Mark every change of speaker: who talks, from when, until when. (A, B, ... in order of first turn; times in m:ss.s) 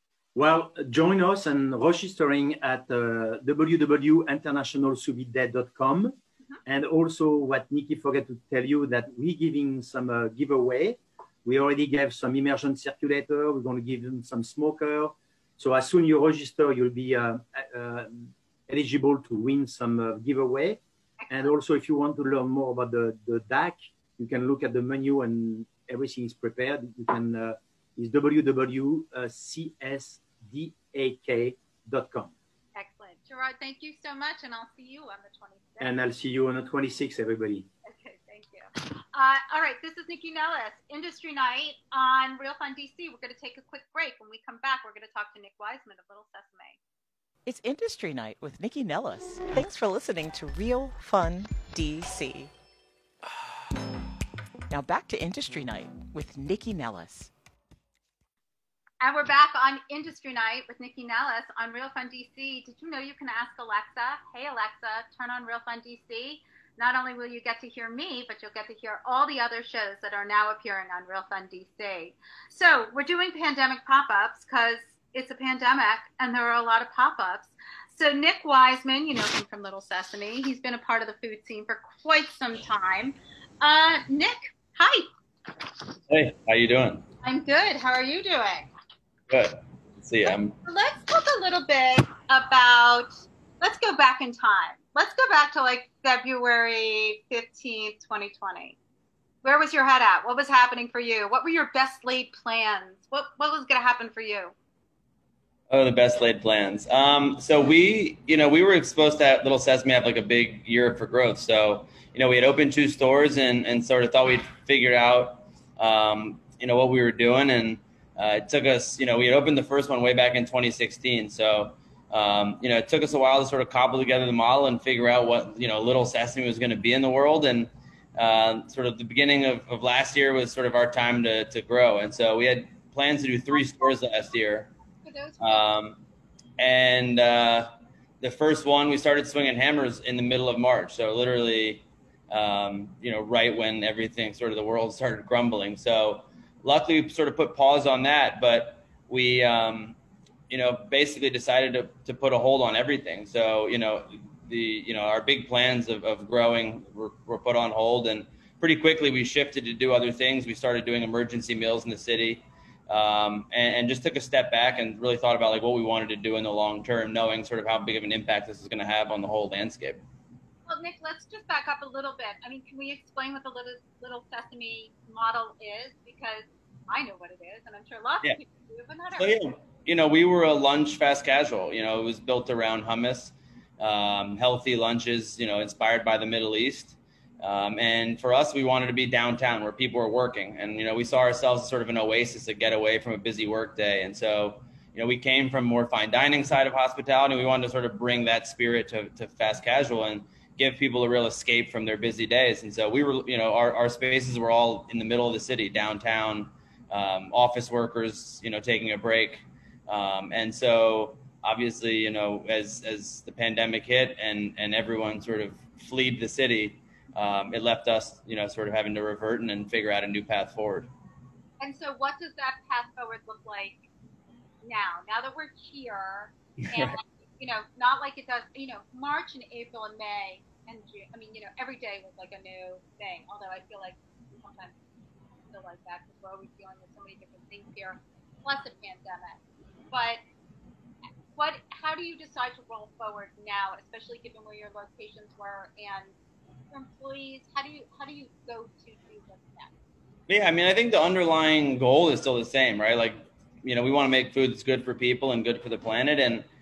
0:00.3-0:32.3 A
0:21.2-0:21.5 B
0:32.7-0:35.9 B
0:35.8-0:37.7 A
0:37.8-0:46.8 B
0:47.4-0:52.5 C
0:54.7-0:57.3 C
0:59.0-1:25.1 B
1:26.1-1:27.0 D
1:27.2-1:28.7 B
1:29.3-1:30.6 D
1:30.2-1:38.8 B
1:39.4-1:44.5 B
1:45.7-2:14.7 D
2:13.5-2:13.9 B
2:15.0-2:15.6 B
2:15.4-2:16.0 D
2:16.6-2:30.0 D
2:30.5-2:50.0 D
2:50.7-2:59.5 B
2:59.2-3:40.9 D
3:41.6-3:43.8 B
3:44.6-3:54.8 B
3:55.5-3:59.4 B
3:59.9-4:00.2 B
4:01.4-4:06.1 B
4:06.7-4:09.7 B
4:10.3-4:16.4 D